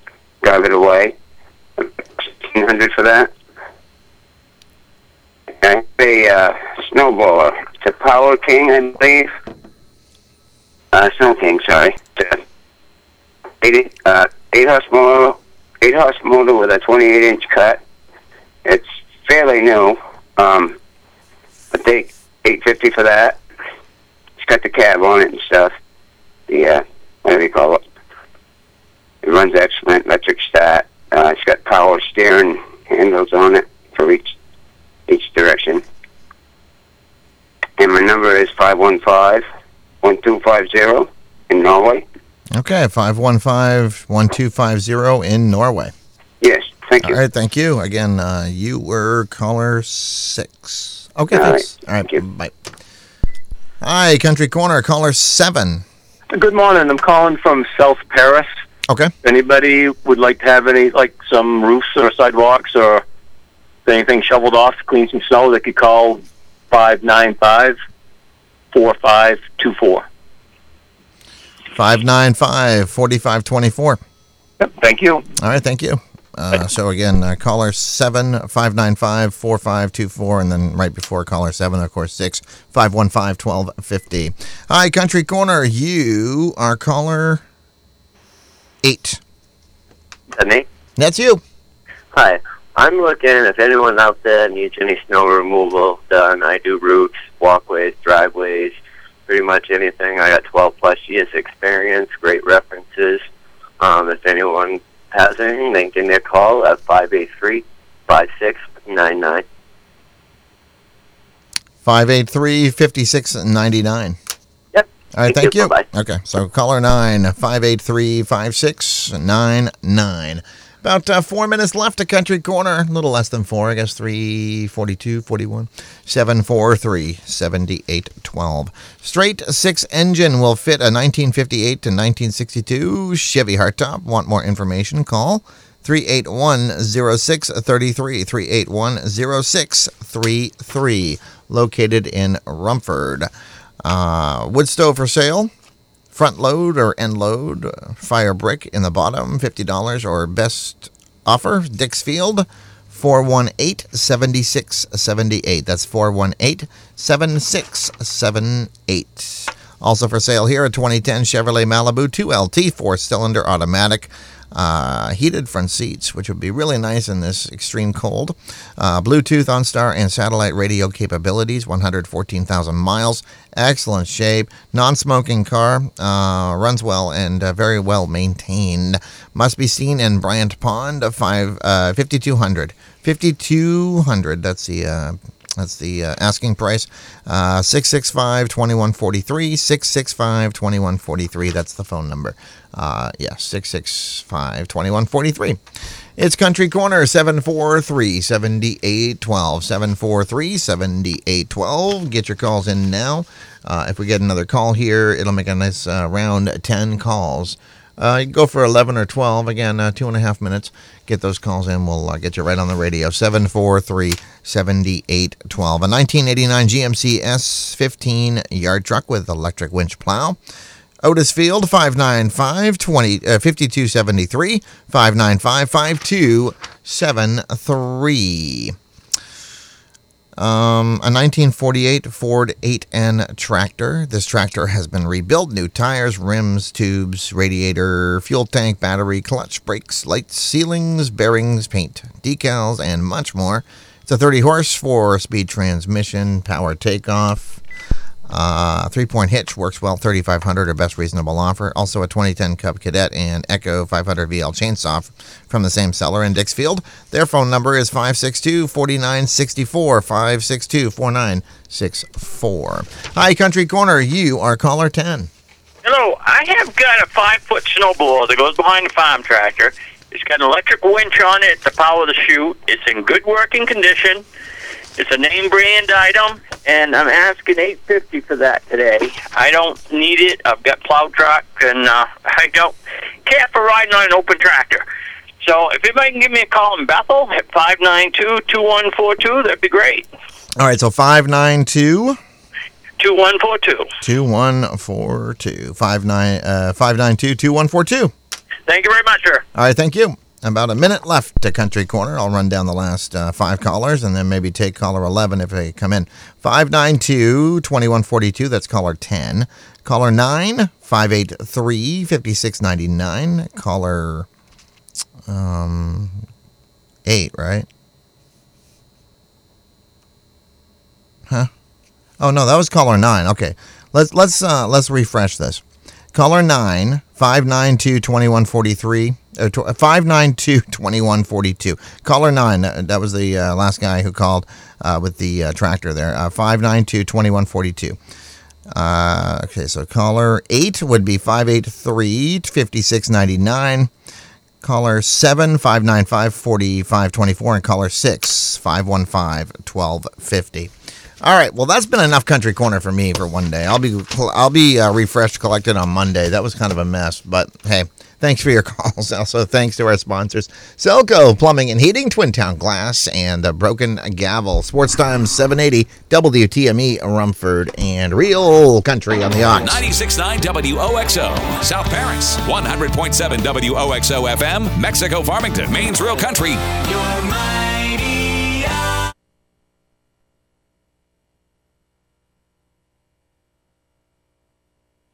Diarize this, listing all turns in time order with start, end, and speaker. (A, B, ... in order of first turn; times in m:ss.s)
0:00.4-0:01.2 A
0:01.8-0:03.3 A
0:05.6-0:09.3 A
0:10.9-0:12.4 A
0:13.6-0:17.8 A
0:18.6-0:20.8 A
0:21.7-0:23.4 A
0:24.4-0:25.7 A
0:26.5-0:27.8 A
0:29.2-0:34.3 A
0:35.1-0:35.8 A
0:37.8-0:39.4 A
0:40.0-0:42.0 A
0:42.5-0:45.9 B
0:46.4-0:47.2 A
0:47.0-0:52.5 B
0:51.3-0:52.2 A
0:53.8-0:55.8 B
0:56.3-0:58.5 C
0:58.9-0:59.1 B
0:59.2-1:03.0 C
1:03.9-1:07.8 C
1:08.7-1:10.0 C
1:11.7-1:14.0 B
1:14.6-1:15.2 C
1:15.4-1:27.4 B
1:28.8-1:29.2 B
1:30.3-1:30.6 D
1:31.0-1:31.4 B
1:32.2-1:38.8 D
1:39.3-1:43.2 D
1:43.8-1:49.4 D
1:51.8-1:54.2 B
1:54.7-1:55.8 D
1:55.2-2:23.3 B
2:23.8-2:25.5 B
2:26.1-3:15.6 B
3:16.2-3:40.4 B
3:41.0-3:48.8 B
3:50.4-4:07.6 B
4:08.3-4:25.3 B
4:25.8-4:34.2 E
4:35.0-4:42.7 E
4:43.2-4:44.8 E
4:45.4-4:50.0 E
4:50.6-4:52.2 B
4:53.0-4:53.9 E
4:54.0-4:58.1 B
4:58.7-4:59.4 E
4:59.6-5:14.3 B
5:15.3-5:16.2 B
5:17.1-5:17.7 B
5:22.2-5:25.6 B
5:26.1-5:38.0 B
5:38.7-5:43.9 B
5:44.6-6:09.8 B
6:09.6-6:16.6 F